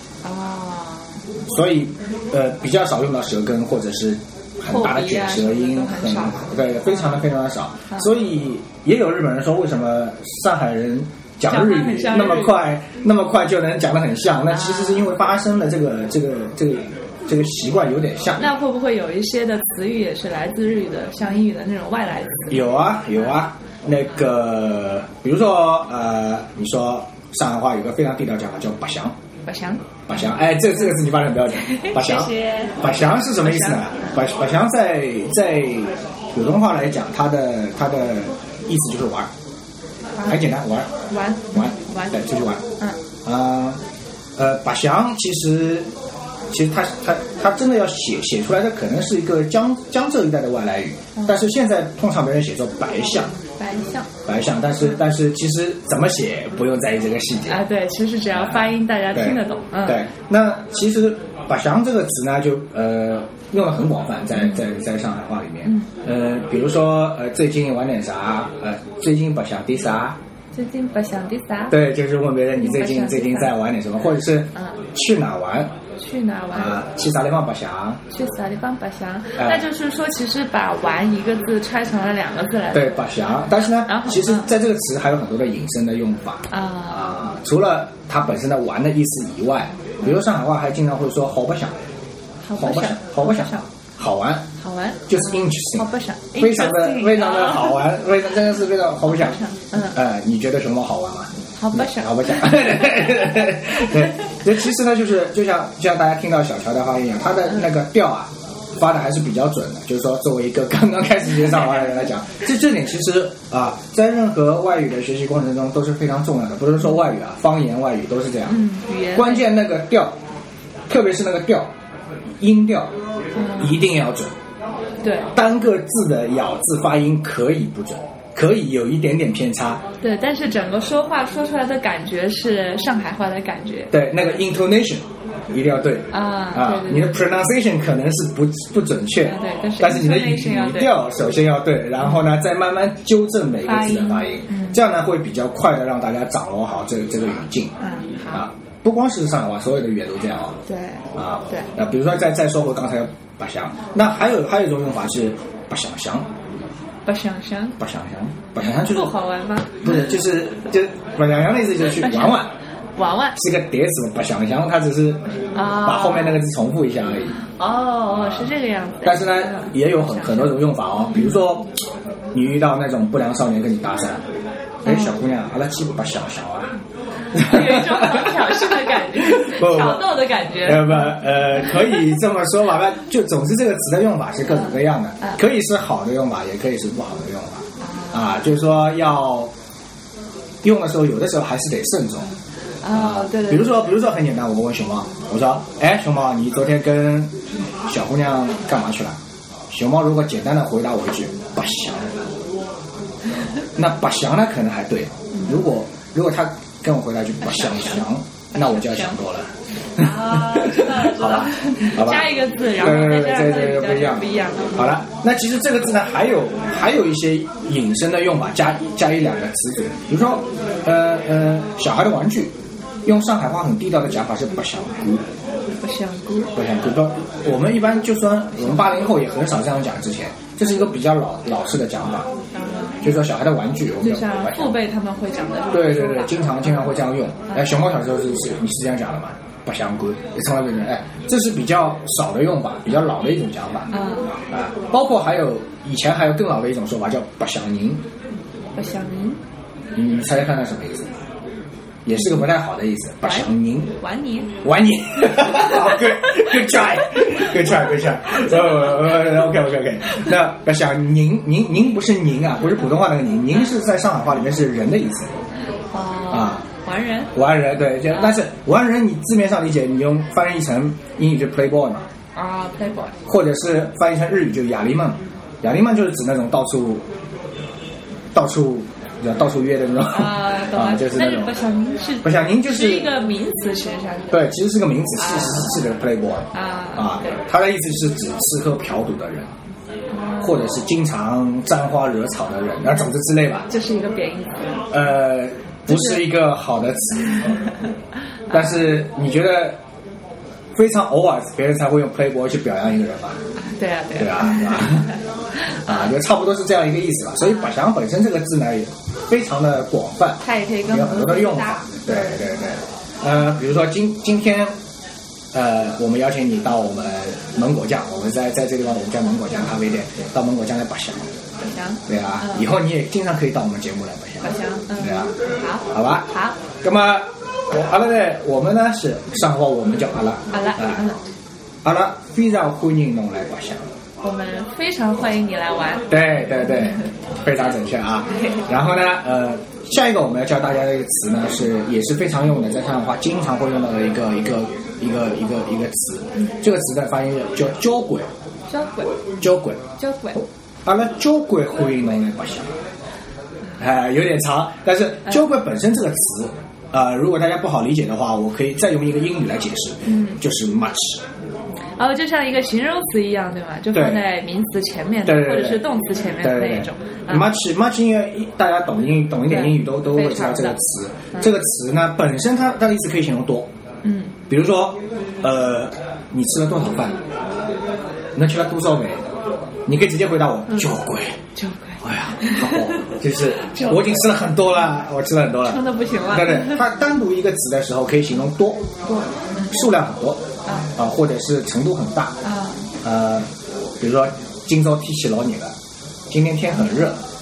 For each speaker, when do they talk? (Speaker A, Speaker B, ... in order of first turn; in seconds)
Speaker A: 0.2-1.2, 4.7-7.2, 11.4-12.6, 14.5-15.1, 18.4-22.6, 29.4-29.8, 31.5-34.2, 40.1-40.5, 41.1-43.0, 53.6-54.1, 57.5-60.0, 64.3-64.6, 65.6-65.9, 70.5-71.8, 72.5-73.5, 74.5-74.8, 76.0-76.8, 78.1-83.0, 83.8-84.5, 86.5-87.3, 92.4-93.7, 94.6-97.8, 99.0-100.0, 101.6-103.2, 118.5-119.5, 123.3-123.7, 125.0-125.3, 130.0-133.9, 136.1-137.2, 139.2-140.9, 143.7-144.8, 147.8-148.4, 150.7-151.7, 157.0-157.8, 158.6-160.0, 161.9-162.4, 163.0-163.4, 165.5-166.4, 167.4-170.6, 174.8-175.1, 177.3-182.0, 184.5-185.4, 187.8-188.4, 192.8-193.9, 205.3-205.6, 207.4-209.2, 209.9-215.0, 225.8-226.5, 228.6-228.9, 232.5-233.0, 234.0-236.9, 243.9-244.3, 248.8-249.4, 252.1-252.5, 253.2-254.5, 255.4-256.6, 258.7-259.2, 265.9-267.3, 268.1-268.4, 272.4-273.2, 280.1-284.5, 285.1-285.8, 286.5-287.4, 290.1-290.8, 293.7-294.8, 295.9-296.3, 298.5-298.9, 303.6-306.1, 307.4-307.8, 310.4-312.4, 321.6-322.7, 324.4-326.6, 330.5-331.2, 334.2-337.1, 338.3-338.6, 348.7-349.1, 350.0-350.4, 360.0-360.4, 362.0-367.4, 369.4-370.8, 374.0-374.4, 381.5-384.2, 385.6-386.8, 389.1-389.8, 390.6-390.9, 392.4-392.9, 396.7-397.1
Speaker B: 1.5-18.5, 22.5-29.1, 30.1-39.3, 40.2-40.9, 41.5-42.6, 43.2-43.8, 44.4-45.9, 46.5-53.3, 54.2-57.6, 58.3-70.2, 71.7-75.7, 76.5-78.0, 79.4-79.7, 82.7-91.7, 92.5-94.5, 95.1-118.6, 119.1-120.2, 120.9-121.7, 122.4-122.9, 123.6-124.3, 125.3-129.8, 133.9-147.7, 148.3-150.6, 151.2-156.3, 157.8-159.1, 159.8-162.5, 163.3-165.2, 165.8-167.4, 168.1-168.5, 169.0-171.8, 172.3-174.2, 174.8-176.8, 177.3-189.5, 190.6-192.3, 192.9-197.3, 197.9-199.2, 199.7-202.3, 203.8-222.5, 223.0-225.2, 226.5-232.3, 233.0-234.8, 235.7-248.0, 249.9-251.1, 252.0-253.9, 254.6-265.3, 266.3-266.6, 267.3-272.1, 273.2-277.0, 278.3-281.6, 282.2-283.1, 284.3-289.5, 290.4-293.7, 294.9-297.5, 298.5-299.8, 300.7-303.4, 304.1-305.1, 305.8-314.7, 315.5-321.3, 322.1-325.3, 325.9-326.3, 326.8-331.0, 331.8-333.9, 336.1-348.3, 349.4-349.8, 350.8-352.7, 353.8-361.2, 363.9-364.2, 365.2-365.9, 366.4-373.7, 374.5-377.2, 378.3-379.3, 379.9-381.4, 382.0-388.9, 389.6-390.4, 390.9-392.4, 393.0-393.5, 394.0-395.7, 396.3-397.2